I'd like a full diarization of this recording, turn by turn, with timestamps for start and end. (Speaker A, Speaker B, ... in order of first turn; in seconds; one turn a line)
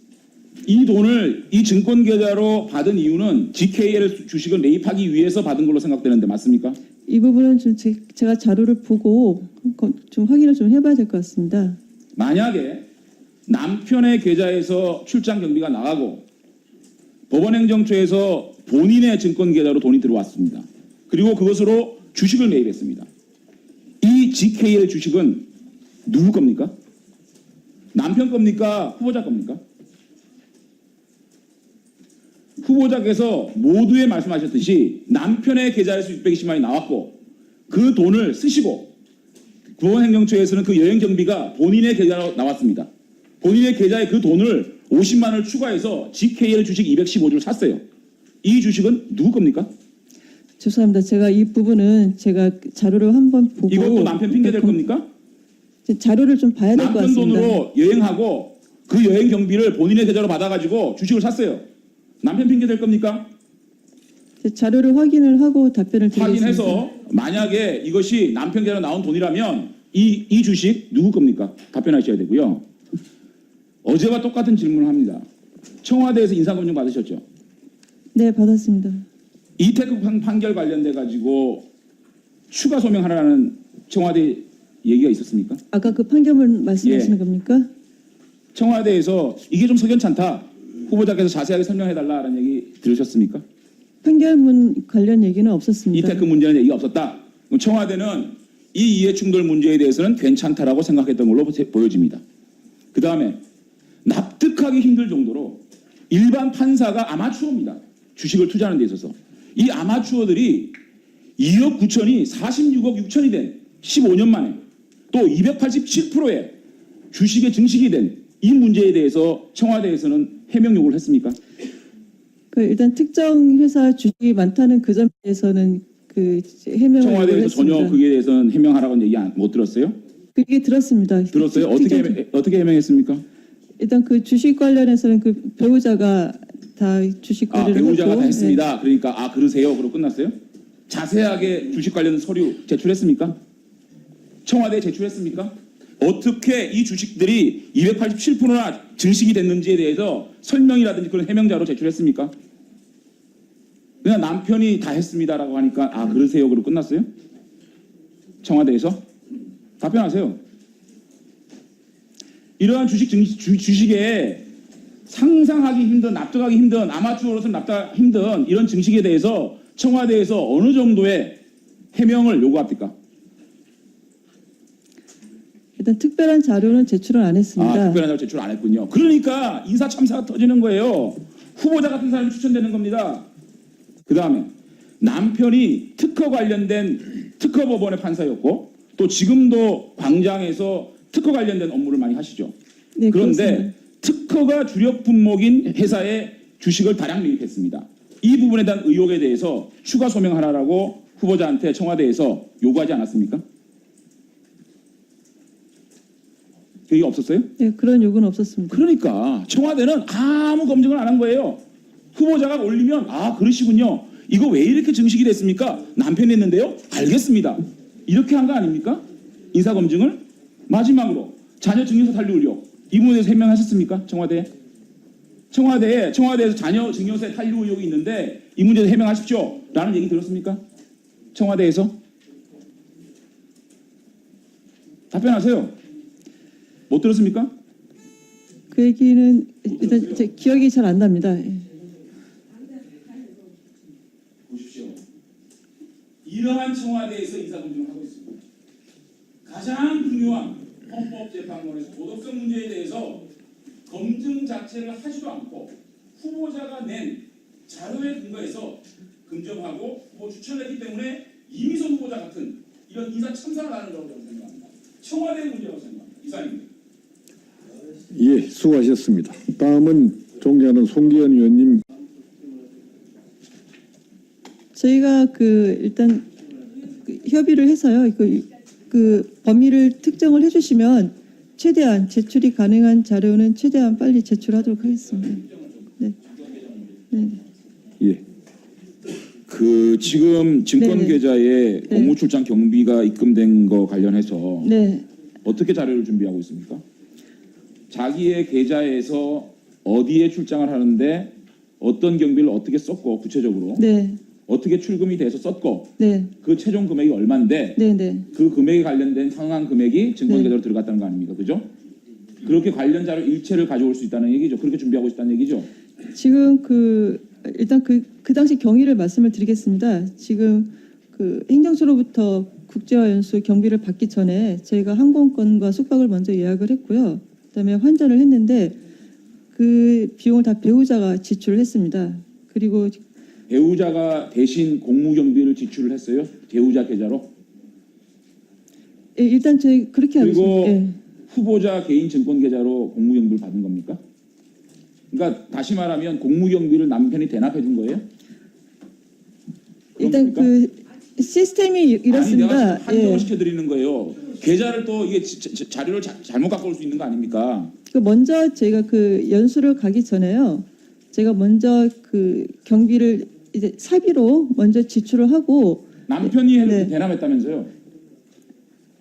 Speaker A: 0.6-6.8
Speaker B: 7.1-11.8
Speaker A: 12.2-12.9
Speaker A: 13.5-16.2
Speaker A: 17.3-23.1
Speaker A: 24.0-25.5
Speaker A: 26.1-26.7
Speaker A: 27.9-29.6
Speaker A: 32.6-38.9
Speaker A: 39.8-42.9
Speaker A: 43.4-47.8
Speaker A: 48.4-49.7
Speaker B: 50.6-54.8
Speaker A: 53.7-55.1
Speaker B: 55.9-57.6
Speaker A: 56.7-61.6
Speaker A: 62.2-63.3
Speaker B: 64.4-66.8
Speaker A: 66.1-72.6
Speaker A: 73.8-75.2
Speaker A: 75.8-77.2
Speaker B: 78.1-79.0
Speaker A: 79.6-81.7
Speaker A: 82.5-85.6
Speaker B: 85.7-87.7
Speaker A: 86.8-87.1
Speaker A: 88.5-93.4
Speaker B: 94.0-96.2
Speaker A: 95.9-102.2
Speaker A: 102.9-103.4
Speaker A: 104.0-110.8
Speaker A: 111.4-116.5
Speaker A: 117.1-121.4
Speaker B: 122.5-128.0
Speaker A: 127.0-129.9
Speaker B: 130.3-132.2
Speaker A: 131.3-133.2
Speaker B: 133.8-138.6
Speaker A: 137.5-140.3
Speaker A: 140.9-143.4
Speaker A: 144.4-152.3
Speaker A: 154.0-157.1
Speaker A: 158.4-159.0
Speaker A: 159.8-160.4
Speaker A: 162.6-164.5
Speaker A: 165.1-171.4
Speaker A: 171.9-172.9
Speaker B: 175.8-178.0
Speaker A: 177.6-183.3
Speaker A: 184.1-192.5
Speaker B: 192.9-193.7
Speaker A: 193.1-203.4
Speaker A: 206.9-207.5
Speaker B: 207.6-208.8
Speaker A: 208.7-211.6
Speaker A: 212.1-224.5
Speaker A: 225.5-230.6
Speaker A: 231.3-232.0
Speaker A: 235.1-235.7
Speaker A: 236.9-237.5
Speaker B: 238.7-241.7
Speaker A: 239.7-240.2
Speaker A: 244.5-245.0
Speaker A: 246.2-248.4
Speaker A: 249.4-253.3
Speaker A: 253.9-266.6
Speaker C: 268.1-271.8
Speaker B: 274.7-276.3
Speaker B: 277.0-285.4
Speaker B: 287.1-287.4
Speaker A: 289.5-294.7
Speaker B: 290.8-291.2
Speaker B: 291.9-292.1
Speaker B: 294.6-295.0
Speaker A: 295.4-296.8
Speaker A: 297.9-303.8
Speaker B: 303.8-304.2
Speaker A: 304.4-307.8
Speaker B: 306.0-306.3
Speaker B: 307.8-308.3
Speaker A: 308.3-311.7
Speaker B: 310.3-310.5
Speaker A: 312.4-315.7
Speaker B: 316.1-328.8
Speaker B: 329.5-333.0
Speaker A: 333.5-337.3
Speaker B: 339.1-340.9
Speaker A: 340.2-344.0
Speaker A: 345.1-348.1
Speaker A: 349.9-350.5
Speaker B: 350.0-353.3
Speaker A: 352.1-357.7
Speaker B: 357.9-366.9
Speaker A: 366.1-367.7